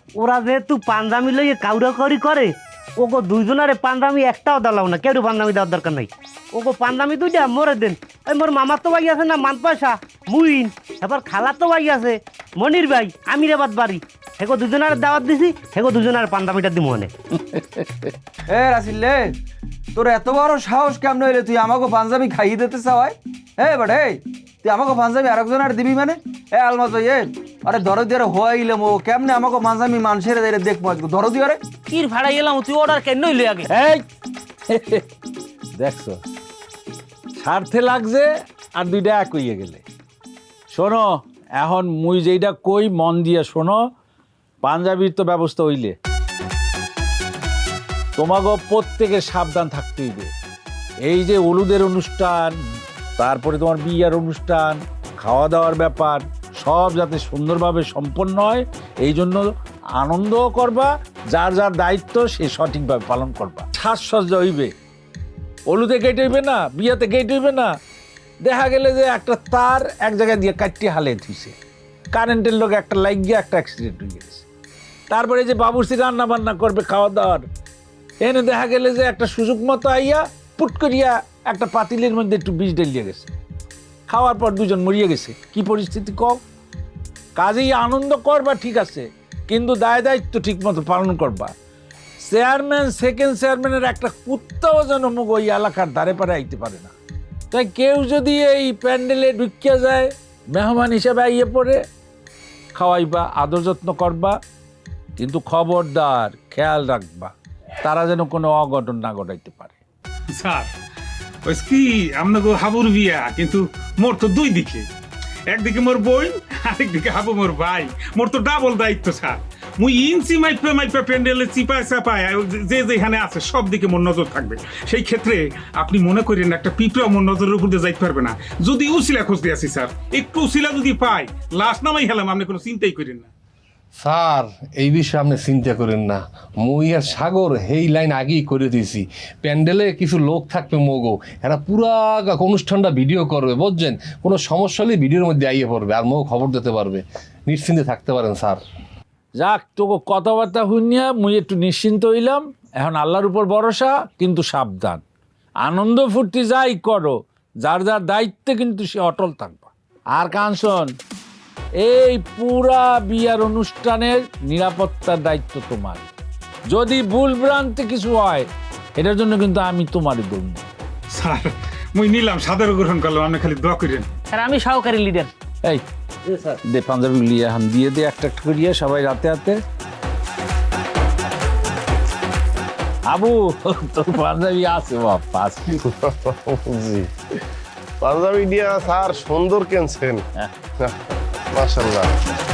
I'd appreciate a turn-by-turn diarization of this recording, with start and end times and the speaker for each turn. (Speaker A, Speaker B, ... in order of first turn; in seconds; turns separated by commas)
Speaker A: 0.2-17.1, Speaker B: 17.5-17.8, Speaker C: 18.5-19.4, Speaker C: 19.9-31.6, Speaker D: 31.9-33.7, Speaker B: 33.7-34.0, Speaker B: 34.7-35.0, Speaker B: 35.8-36.2, Speaker B: 37.4-39.8, Speaker B: 40.7-43.8, Speaker B: 44.6-46.0, Speaker B: 48.2-50.3, Speaker B: 51.0-52.6, Speaker B: 53.2-64.7, Speaker B: 65.7-67.7, Speaker B: 68.4-71.6, Speaker B: 72.1-74.5, Speaker B: 75.1-77.5, Speaker B: 78.2-83.3, Speaker B: 84.1-86.4, Speaker B: 87.4-91.5, Speaker B: 92.2-96.9, Speaker B: 97.5-101.8, Speaker B: 102.8-104.4, Speaker B: 105.2-109.8, Speaker E: 110.4-110.7, Speaker E: 111.5-114.8, Speaker E: 115.5-133.3, Speaker F: 134.0-148.6, Speaker B: 149.4-155.0, Speaker B: 155.6-160.9, Speaker B: 161.8-166.1, Speaker B: 166.7-170.7, Speaker E: 171.1-174.1, Speaker D: 174.3-175.3, Speaker B: 176.4-179.6, Speaker B: 183.1-185.7, Speaker G: 185.9-187.1, Speaker G: 188.0-190.2, Speaker G: 191.5-192.2